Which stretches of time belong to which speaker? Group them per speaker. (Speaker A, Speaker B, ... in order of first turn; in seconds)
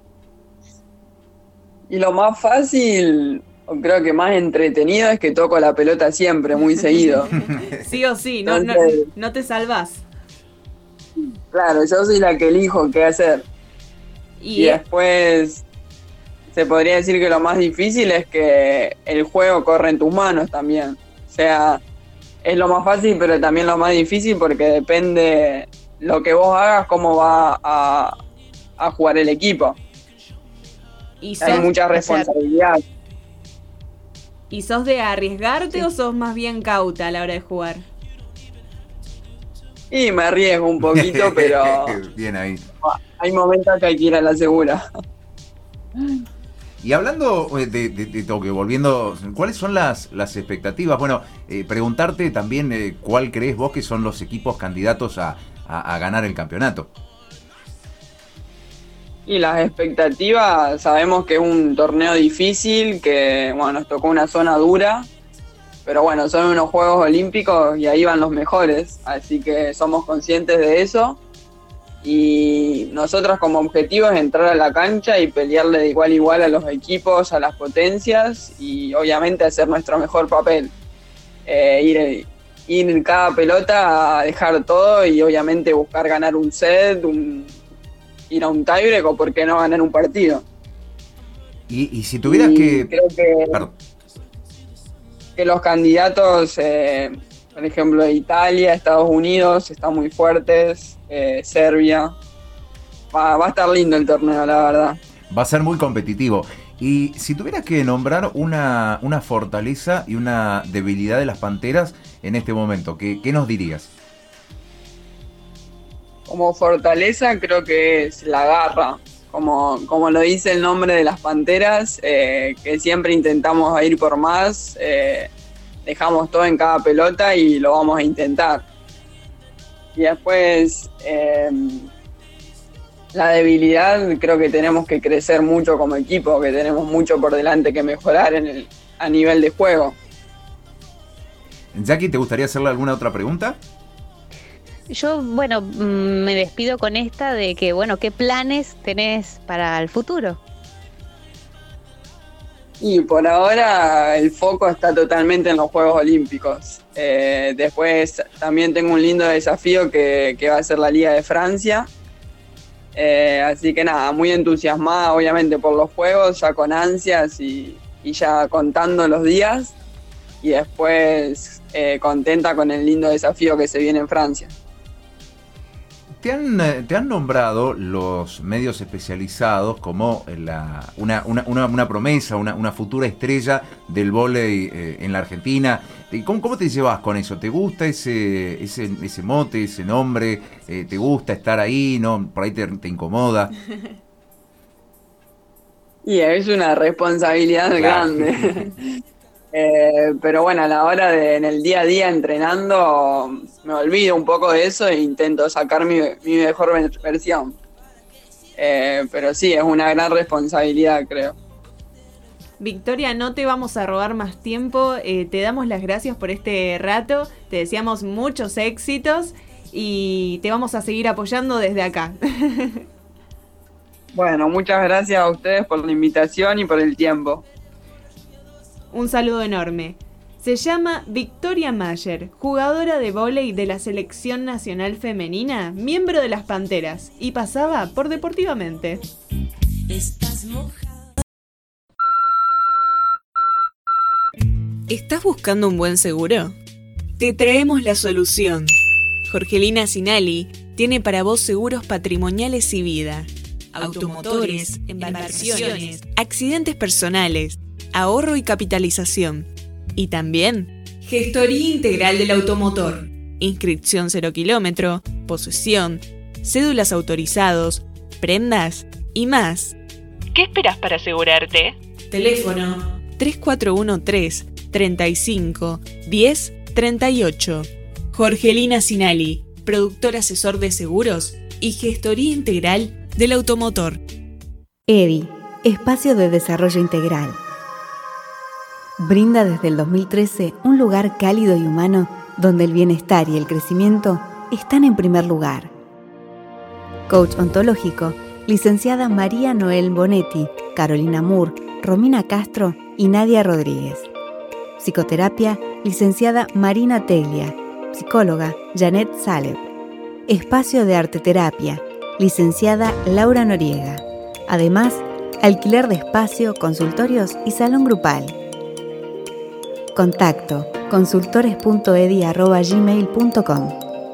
Speaker A: 1.9-7.3, 8.5-9.0, 11.5-13.4, 14.5-15.6, 16.5-21.8, 22.4-28.2, 28.8-29.8, 31.4-32.8, 39.9-42.0, 42.8-44.8, 46.0-46.2, 59.3-65.1, 65.8-71.2, 72.0-80.7, 81.5-87.5, 88.3-90.4, 92.2-93.6, 95.4-102.1, 103.1-105.0, 116.3-125.3, 125.8-128.6, 129.9-131.9, 133.1-140.0, 152.8-161.9, 162.9-169.7, 170.4-174.5, 196.0-198.7, 199.5-207.6, 208.6-211.3, 224.1-227.4
Speaker B: 7.3-7.6, 40.9-42.6, 46.8-56.9, 91.7-92.9, 105.3-113.9, 141.7-143.6, 176.2-193.5, 197.7-198.3
Speaker C: 7.7-10.0, 14.4-14.8, 31.2-31.7, 34.5-37.8, 212.6-222.8, 228.9-239.0, 240.1-240.5, 244.9-246.5, 247.2-248.7, 249.2-269.8, 270.3-284.0
Speaker D: 31.4-32.3, 144.9-150.4
Speaker E: 284.9-287.4, 289.0-295.7, 297.1-304.1, 304.8-309.6, 310.3-318.4, 319.9-323.8